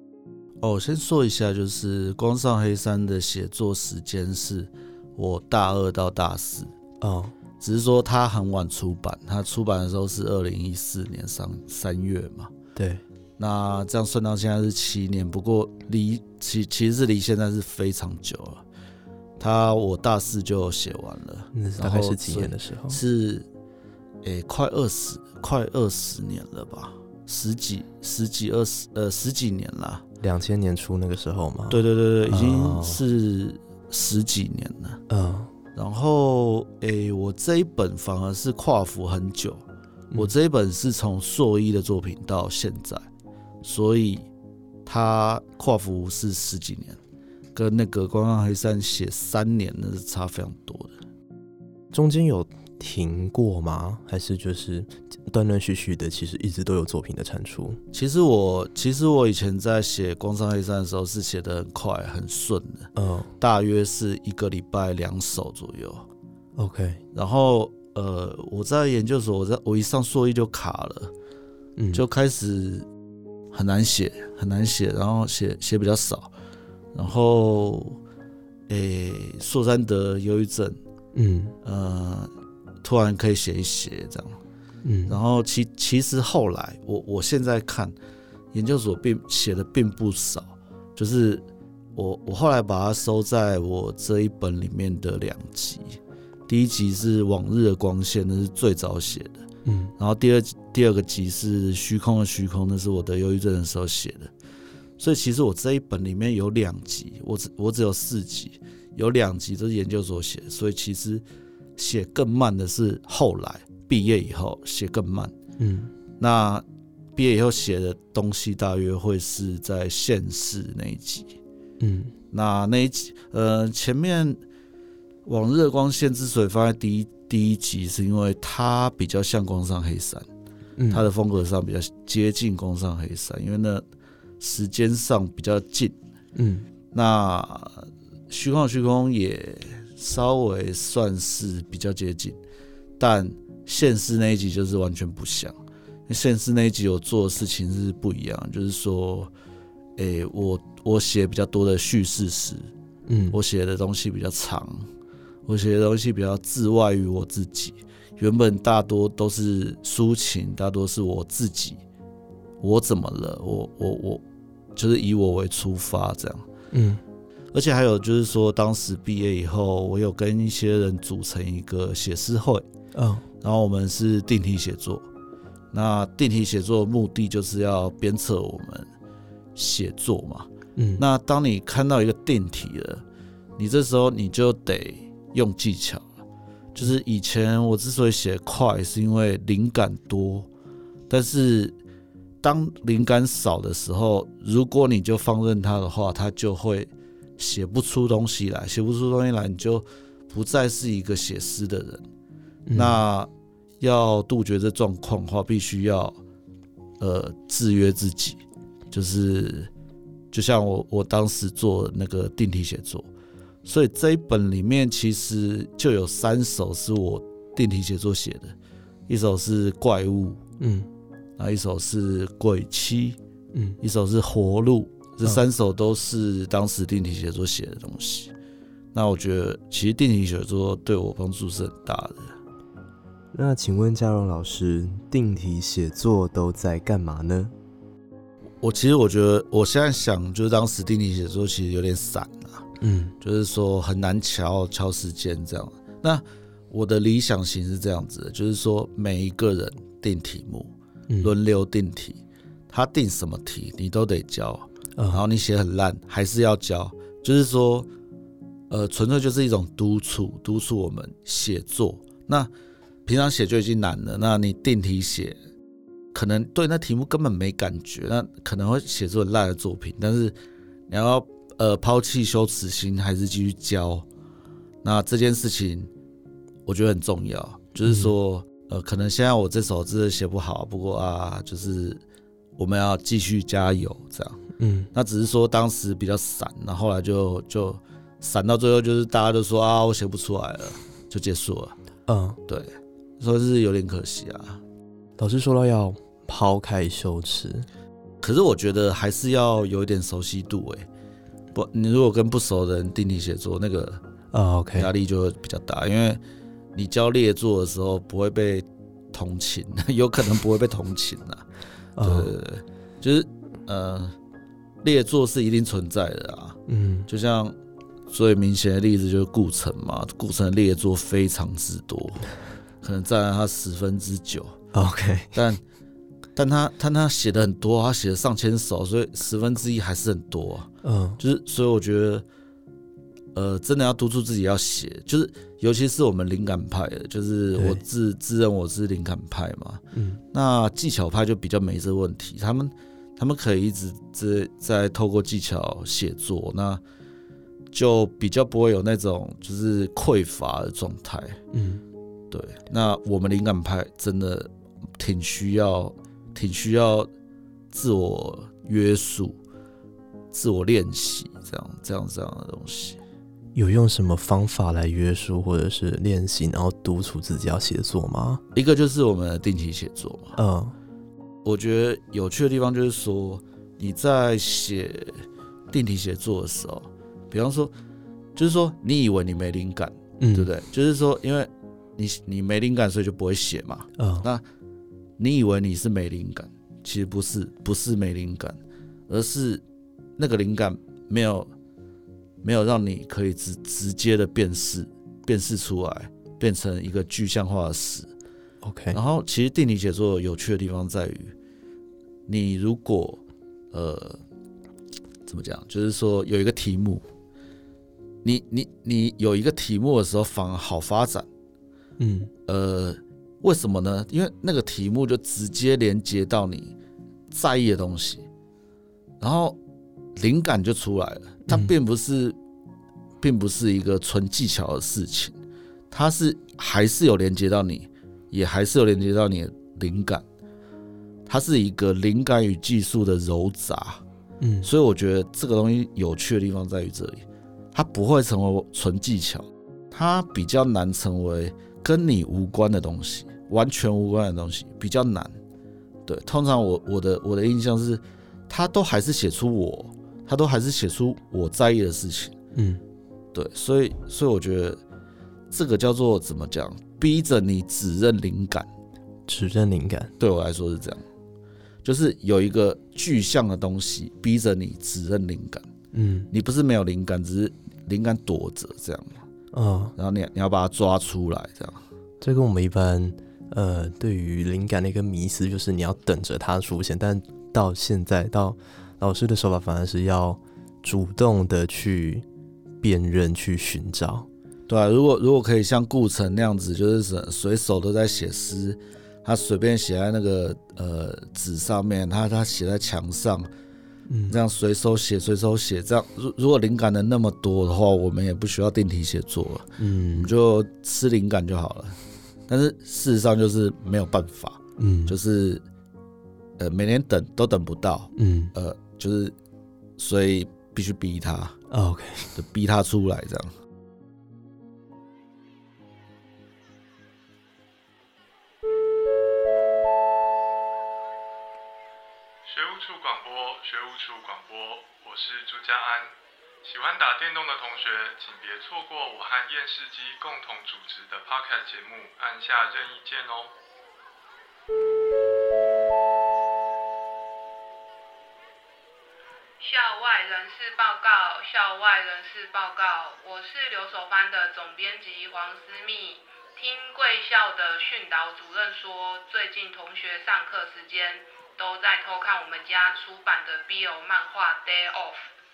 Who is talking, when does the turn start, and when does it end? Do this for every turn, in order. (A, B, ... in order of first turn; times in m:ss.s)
0:00.6-0:06.7 A
0:07.0-0:07.3 B
0:07.6-0:12.5 A
0:12.7-0:13.0 B
0:13.4-0:18.6 A
0:19.4-0:23.5 A
0:21.5-0:23.0 B
0:24.2-0:30.0 A
0:30.2-0:33.0 B
0:31.7-0:35.0 A
0:35.1-0:35.5 B
0:35.7-0:43.1 A
0:43.6-0:44.3 A
0:44.8-0:47.0 A
0:47.5-0:51.0 A
0:51.9-0:57.8 B
0:57.9-1:06.0 A
1:03.0-1:03.3 B
1:06.6-1:07.0 B
1:07.1-1:11.1 A
1:11.8-1:12.0 B
1:11.9-1:12.9 A
1:13.5-1:16.3 A
1:16.9-1:18.0 A
1:18.7-1:20.8 A
1:21.1-1:21.5 B
1:21.6-1:22.3 A
1:22.8-1:24.4 A
1:24.8-1:25.2 B
1:25.0-1:27.9 A
1:28.5-1:39.4 A
1:39.6-1:39.9 B
1:40.0-1:44.3 A
1:45.0-1:51.2 A
1:51.8-1:55.3 A
1:55.6-1:55.9 B
1:56.2-1:56.6 A
1:57.2-2:01.3 A
2:01.8-2:02.1 B
2:02.3-2:04.4 A
2:05.2-2:10.3 A
2:10.8-2:11.1 B
2:10.9-2:13.8 A
2:14.4-2:16.0 A
2:16.4-2:16.7 B
2:16.9-2:22.4 A
2:23.0-2:25.6 A
2:26.1-2:29.3 A
2:30.0-2:32.7 A
2:33.1-2:33.4 B
2:33.3-2:34.9 A
2:35.4-2:41.8 A
2:42.6-2:44.2 A
2:44.8-2:46.5 A
2:46.7-2:47.0 B
2:47.5-2:52.6 A
2:52.9-2:53.2 B
2:53.4-2:55.1 A
2:55.7-2:58.9 A
2:59.5-3:03.0 A
3:00.8-3:01.0 B
3:03.6-3:06.1 A
3:06.7-3:10.5 A
3:11.1-3:11.8 A
3:12.4-3:22.0 A
3:22.7-3:23.0 B
3:22.7-3:26.2 A
3:27.0-3:29.7 A
3:30.3-3:33.1 A
3:33.6-3:38.5 A
3:39.1-3:40.4 A
3:40.6-3:40.9 B
3:41.4-3:43.2 A
3:43.5-3:43.8 B
3:43.8-3:48.3 A
3:48.9-3:52.3 A
3:53.3-3:57.5 B
3:58.6-4:02.7 A
4:02.8-4:03.1 B
4:03.2-4:17.9 A
4:15.0-4:15.2 B
4:18.7-4:22.5 A
4:23.0-4:25.4 A
4:26.1-4:30.3 A
4:30.9-4:34.0 A
4:34.8-4:35.9 A
4:36.6-4:42.0 A
4:37.8-4:38.1 B
4:42.6-4:44.4 A
4:44.6-4:44.9 B
4:44.9-4:51.8 A
4:52.1-4:52.4 B
4:52.5-4:54.6 A
4:55.2-4:57.7 B
4:58.2-5:00.9 A
5:01.5-5:04.0 A
5:04.3-5:04.9 B
5:04.7-5:06.2 A
5:06.7-5:11.4 A
5:12.0-5:12.3 B
5:12.0-5:14.1 A
5:14.8-5:17.5 A
5:16.7-5:17.1 B
5:18.1-5:24.6 A
5:24.7-5:25.4 B
5:25.3-5:25.6 A
5:26.4-5:32.2 A
5:30.8-5:31.2 B
5:33.3-5:46.8 A
5:37.6-5:37.8 B
5:39.9-5:40.2 B
5:47.7-5:51.4 A
5:51.5-5:51.8 B
5:52.3-5:57.1 A
5:57.7-5:59.4 A
6:00.3-6:03.0 A
6:03.5-6:08.4 B
6:08.5-6:10.4 A
6:10.4-6:10.7 B
6:11.4-6:17.7 A
6:18.4-6:24.4 A
6:20.2-6:20.5 B
6:24.0-6:24.3 B
6:25.2-6:29.6 A
6:30.2-6:31.5 A
6:32.4-6:38.1 A
6:38.6-6:39.0 B
6:38.9-6:41.3 A
6:42.3-6:44.2 A
6:45.2-6:47.0 A
6:48.2-6:51.3 A
6:52.0-6:52.3 B
6:52.5-6:56.7 A
6:57.3-6:58.3 A
6:59.2-6:59.6 A
7:00.2-7:02.4 A
7:01.5-7:01.7 B
7:03.2-7:05.4 A
7:05.9-7:10.2 A
7:11.2-7:14.0 A
7:14.4-7:14.7 B
7:14.6-7:25.4 A
7:26.0-7:32.3 A
7:32.5-7:32.8 B
7:33.3-7:34.8 A
7:35.5-7:38.7 A
7:39.3-7:40.1 B
7:40.2-7:41.0 A
7:41.8-7:45.6 A
7:45.9-7:46.3 B
7:46.3-7:49.2 A
7:49.5-7:49.9 B
7:50.0-7:51.8 A
7:52.2-8:02.2 B
8:02.8-8:04.3 B
8:04.7-8:13.5 A
8:14.1-8:14.4 B
8:14.3-8:25.6 A
8:19.8-8:20.3 B
8:24.8-8:25.2 B
8:26.6-8:29.3 A
8:28.2-8:28.5 B
8:30.0-8:31.6 A
8:31.7-8:32.4 B
8:32.3-8:33.5 A
8:42.4-8:53.5 C
8:59.6-9:15.3 D